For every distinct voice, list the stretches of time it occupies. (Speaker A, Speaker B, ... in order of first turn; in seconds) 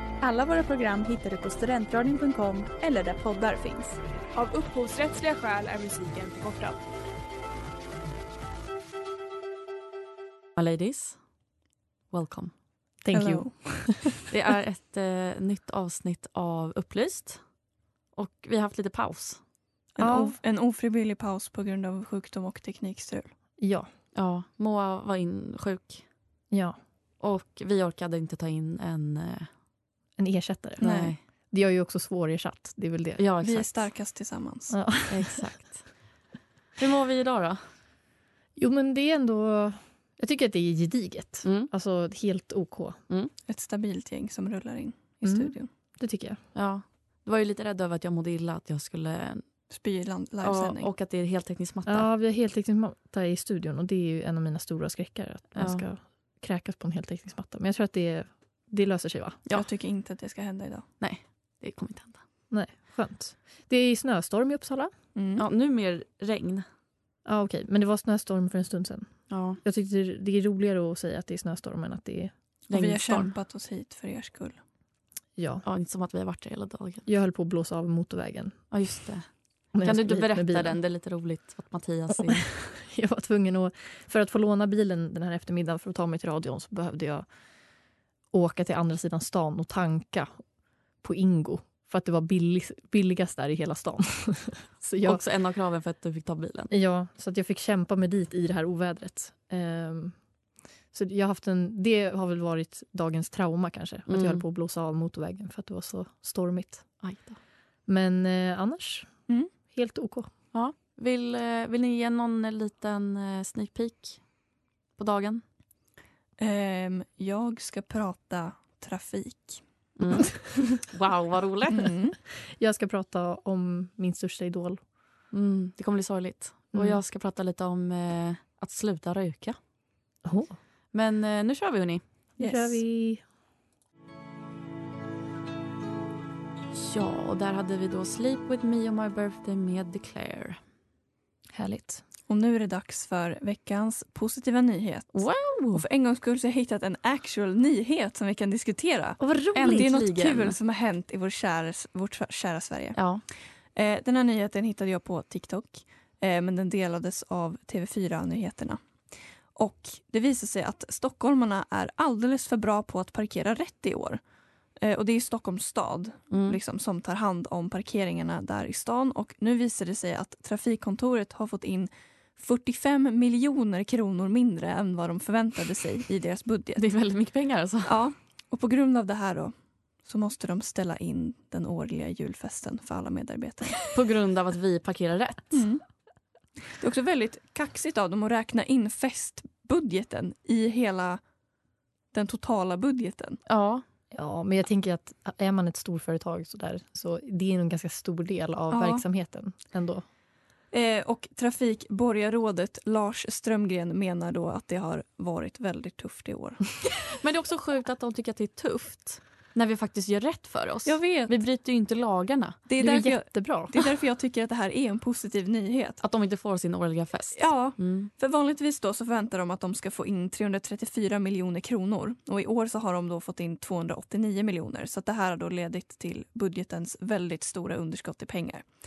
Speaker A: 0.2-4.0
Speaker B: 4.3-6.8
Speaker C: 10.6-11.2, 12.1-12.5, 14.3-17.4, 18.1-19.4, 24.1-26.0, 27.2-29.5, 30.8-31.2, 33.2-33.7, 35.1-35.9, 36.8-37.6, 41.4-41.7, 46.5-49.4, 50.4-52.1, 55.5-55.8, 61.0-62.2, 65.4-66.6, 69.3-69.6, 72.7-73.3, 75.6-77.0, 78.7-79.2, 79.8-82.5, 95.0-96.7, 104.1-104.4, 107.0-107.4, 110.5-114.2, 115.0-115.4, 120.0-121.9, 125.3-129.6, 130.9-132.0, 136.7-140.6, 145.1-145.8, 149.5-150.6, 152.9-153.2, 166.3-166.6, 176.8-177.9, 183.9-185.6, 193.5-193.8, 207.2-212.6, 216.0-218.1
Speaker D: 13.0-14.2, 20.0-20.4, 23.6-23.9, 26.5-26.8, 30.2-33.2, 34.7-35.4, 38.5-43.0, 45.2-46.4, 51.9-59.4, 62.5-64.9, 67.2-72.3, 75.4-75.6, 77.0-78.6, 79.7-80.8, 82.2-87.2, 88.3-90.4, 91.0-95.2, 96.7-100.2, 100.9-106.8, 107.9-109.1, 109.7-110.3, 122.5-124.8, 126.7-127.0, 130.2-130.5, 132.4-133.2, 141.5-142.0, 149.2-149.9, 194.1-200.0, 212.8-213.8
Speaker E: 13.1-13.5, 19.9-23.3, 30.8-31.1, 33.4-34.8, 43.5-45.7, 49.7-50.9, 59.5-60.9, 65.1-65.4, 72.7-74.6, 116.4-119.6, 121.7-122.2, 132.4-132.8, 142.3-153.0, 153.7-158.8, 159.5-164.2, 164.8-176.8, 177.8-179.5, 180.0-183.9, 185.5-185.8, 186.8-191.2, 192.1-193.4, 198.7-199.0, 200.7-206.7, 210.8-211.3, 212.7-216.0, 217.3-228.7